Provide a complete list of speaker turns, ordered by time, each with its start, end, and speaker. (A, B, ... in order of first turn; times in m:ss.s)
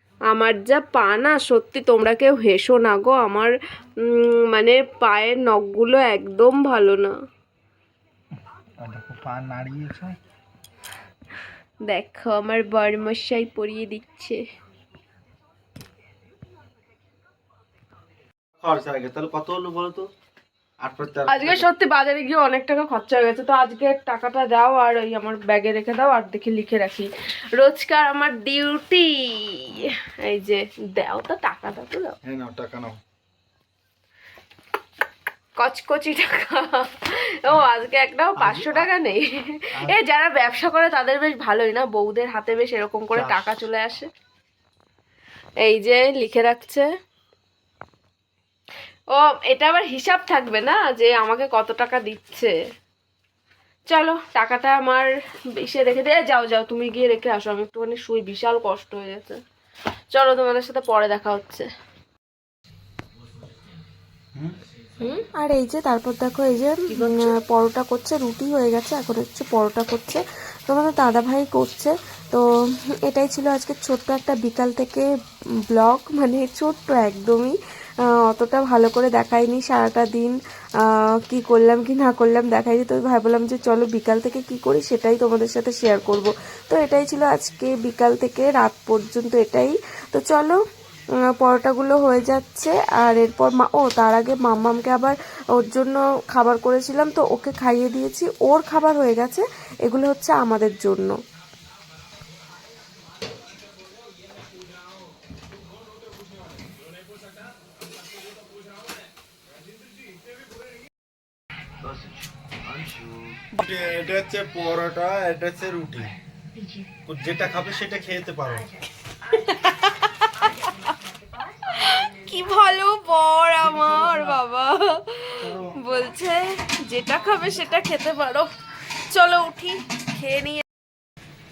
0:00.3-0:03.5 A
0:04.0-0:07.1 A
0:08.8-0:10.2 B
0:11.9-0:14.4 A
0:18.6-0:20.1 B
0:20.8-0:21.7 B
0:21.3-0:32.2 A
0:32.2-0:33.0 B
0:35.6-0:44.1 A
0:38.4-0:38.9 B
0:43.1-0:43.4 B
0:45.6-0:46.9 A
0:49.1-0:52.5 A
0:53.9-0:59.4 A
1:00.1-1:01.7 A
1:05.3-1:15.1 C
1:06.9-1:07.3 A
1:15.7-1:17.6 C
1:18.1-1:30.6 C
1:31.2-1:41.2 C
1:53.6-1:56.1 B
1:57.1-1:58.7 B
1:59.5-2:00.3 A
2:01.8-2:08.5 A
2:05.4-2:05.8 B
2:09.1-2:10.6 A